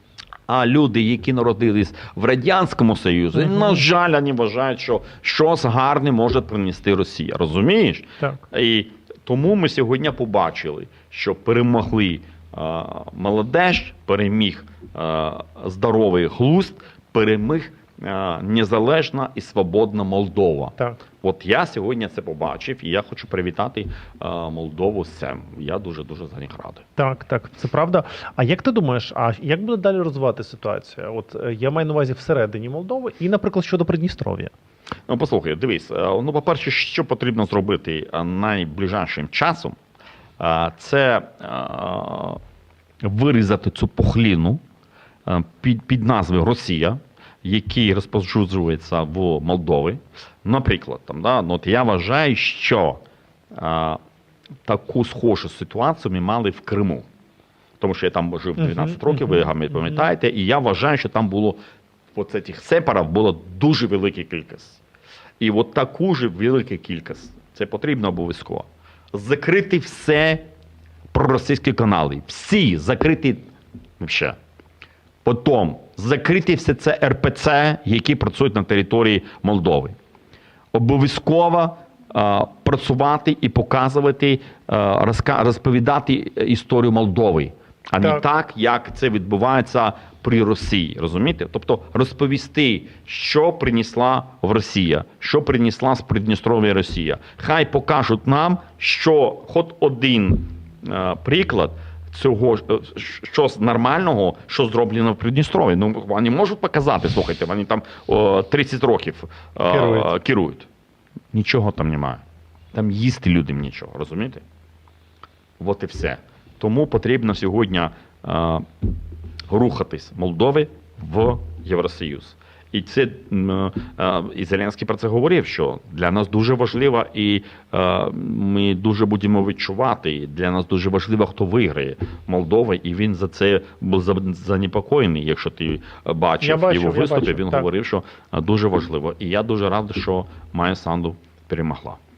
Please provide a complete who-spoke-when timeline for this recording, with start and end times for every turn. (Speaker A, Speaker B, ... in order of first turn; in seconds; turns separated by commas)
Speaker A: 0.5-26.8, Speaker B: 3.4-3.8, Speaker B: 27.0-34.5, Speaker A: 35.1-39.8, Speaker A: 40.4-42.4, Speaker A: 43.0-44.6, Speaker A: 45.2-53.0, Speaker A: 53.5-54.0, Speaker A: 54.6-57.1, Speaker A: 57.8-61.6, Speaker B: 58.6-59.5, Speaker A: 62.1-64.8, Speaker A: 65.4-70.5, Speaker A: 71.1-73.5, Speaker A: 74.0-74.4, Speaker A: 75.2-80.0, Speaker A: 80.7-110.7, Speaker B: 109.7-110.1, Speaker A: 111.3-114.4, Speaker A: 115.6-118.7, Speaker A: 119.5-142.0, Speaker B: 136.4-137.7